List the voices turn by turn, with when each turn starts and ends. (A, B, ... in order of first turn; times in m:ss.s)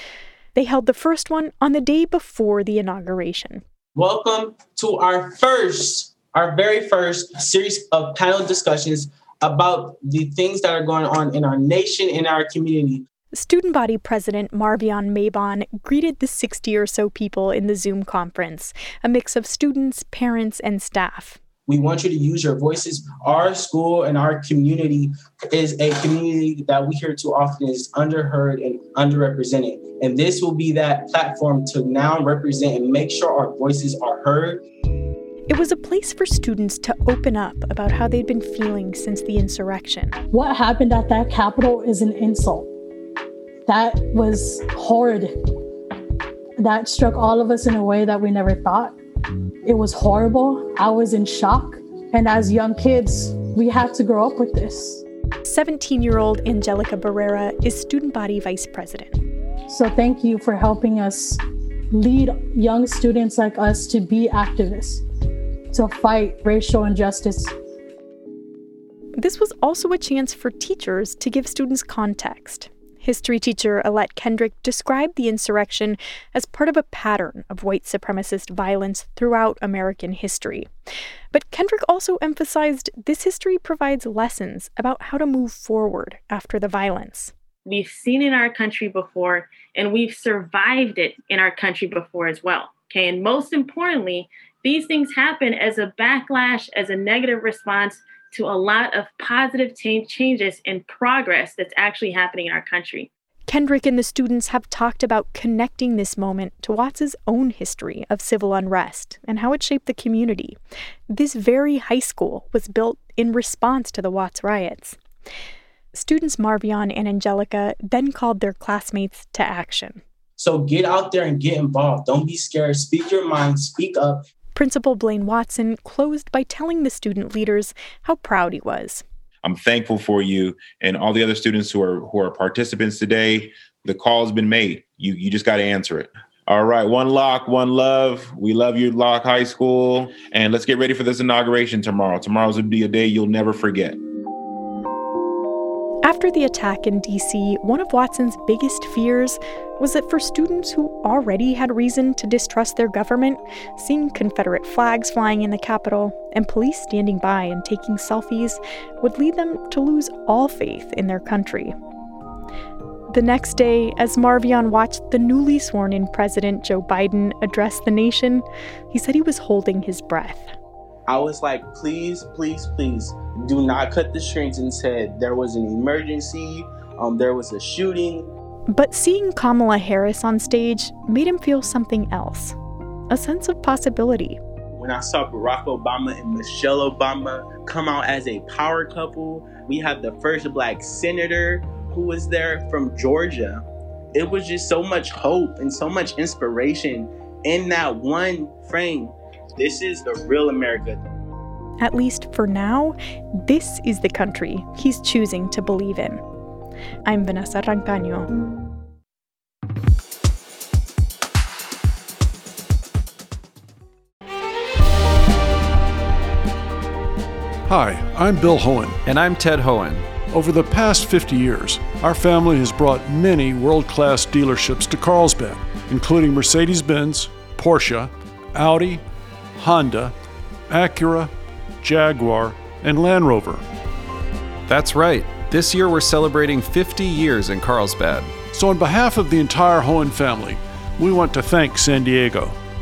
0:00.5-0:03.6 A
0:03.9-0:13.0 B
0:13.3-0:21.4 A
0:21.6-0:34.6 B
0:35.5-0:40.1 A
0:40.3-0:42.7 C
0:43.6-0:45.3 C
0:46.6-0:49.0 C
0:49.6-0:55.0 C
0:55.4-0:59.2 A
0:59.7-1:01.4 C
1:01.9-1:05.0 C
1:05.7-1:07.5 C
1:09.2-1:20.7 A
1:21.3-1:27.3 A
1:27.6-1:43.1 D
1:43.5-1:50.6 A
1:51.1-1:55.0 A
1:55.9-2:00.0 A
2:00.4-2:04.2 B
2:04.5-2:09.0 A
2:09.4-2:24.0 E
2:26.0-2:41.7 A
2:43.1-2:50.5 A
2:51.1-2:58.3 B
2:58.7-3:02.6 A
3:03.1-3:04.4 A
3:04.7-3:21.0 B
3:21.8-3:26.2 A
3:27.0-3:28.3 A
3:37.6-3:39.0 F
3:39.0-3:40.2 G
3:40.3-3:49.0 F
3:49.5-3:50.1 F
3:50.7-3:53.6 F
3:54.7-3:58.3 G
3:58.5-4:02.6 F